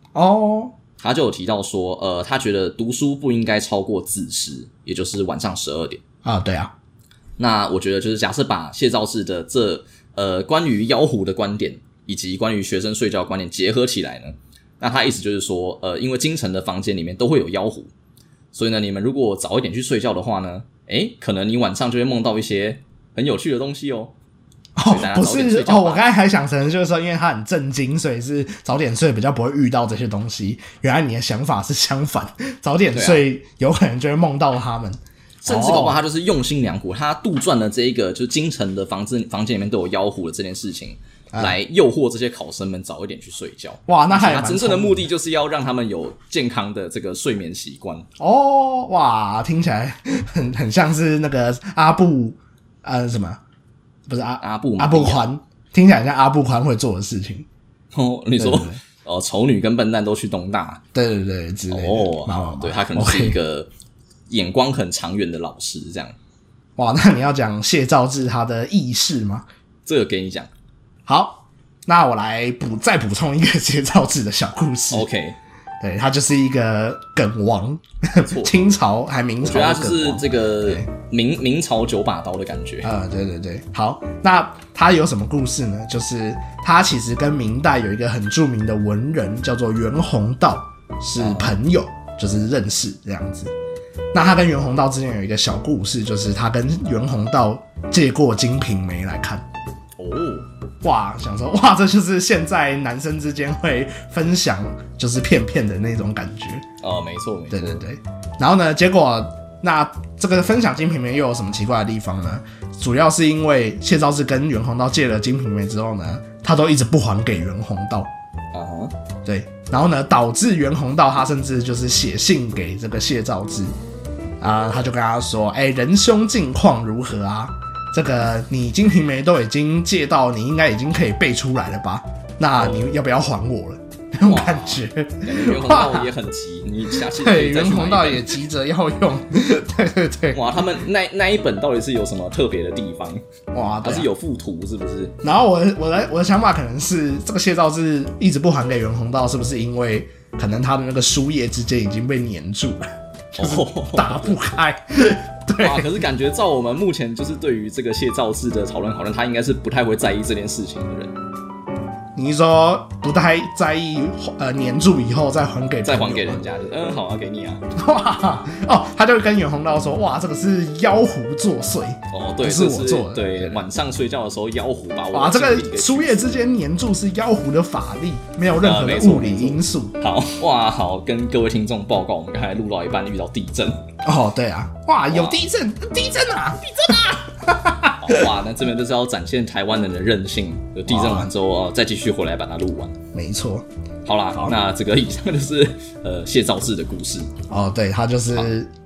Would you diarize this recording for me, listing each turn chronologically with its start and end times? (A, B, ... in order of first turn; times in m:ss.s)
0:00.1-0:00.7 A
0:01.0-0:06.0 B
0:06.2-0:06.7 A
0:07.4-0:17.9 B
0:18.5-0:24.1 B
0:24.8-0:36.0 A
0:24.9-0:26.1 B
0:32.9-0:33.2 B
0:35.4-0:48.1 B
0:43.9-0:45.1 A
0:48.2-0:53.4 A
0:54.1-0:57.5 A
0:54.4-0:55.2 B
0:57.9-1:00.8 B
0:58.4-0:58.8 A
1:00.9-1:03.4 A
1:01.7-1:03.7 B
1:04.3-1:06.2 B
1:06.8-1:09.4 A
1:09.8-1:10.5 B
1:11.1-1:15.1 A
1:14.9-1:15.4 B
1:15.8-1:20.9 A
1:18.2-1:18.6 B
1:19.4-1:22.9 B
1:22.8-1:33.5 A
1:31.2-1:31.6 B
1:34.1-1:39.4 A
1:40.0-1:40.5 B
1:40.8-1:46.6 A
1:46.8-1:47.8 B
1:47.5-1:58.1 A
1:58.5-1:58.9 B
1:59.2-2:03.8 A
2:04.4-2:16.1 A
2:14.2-2:18.4 B
2:16.9-2:20.6 A
2:20.3-2:23.2 B
2:23.5-2:24.1 A
2:23.8-2:25.2 B
2:25.2-2:32.8 A
2:33.3-2:36.0 A
2:33.4-2:34.4 B
2:35.6-2:41.2 B
2:42.2-2:46.4 A
2:45.8-2:47.6 B
2:47.8-2:53.6 A
2:52.1-2:56.3 B
2:55.1-3:00.0 A
2:58.6-3:03.8 B
3:04.0-3:08.2 A
3:05.1-3:05.4 B
3:08.0-3:13.0 B
3:10.9-3:11.3 A
3:13.1-3:13.7 A
3:14.0-3:17.3 B
3:17.5-3:18.7 A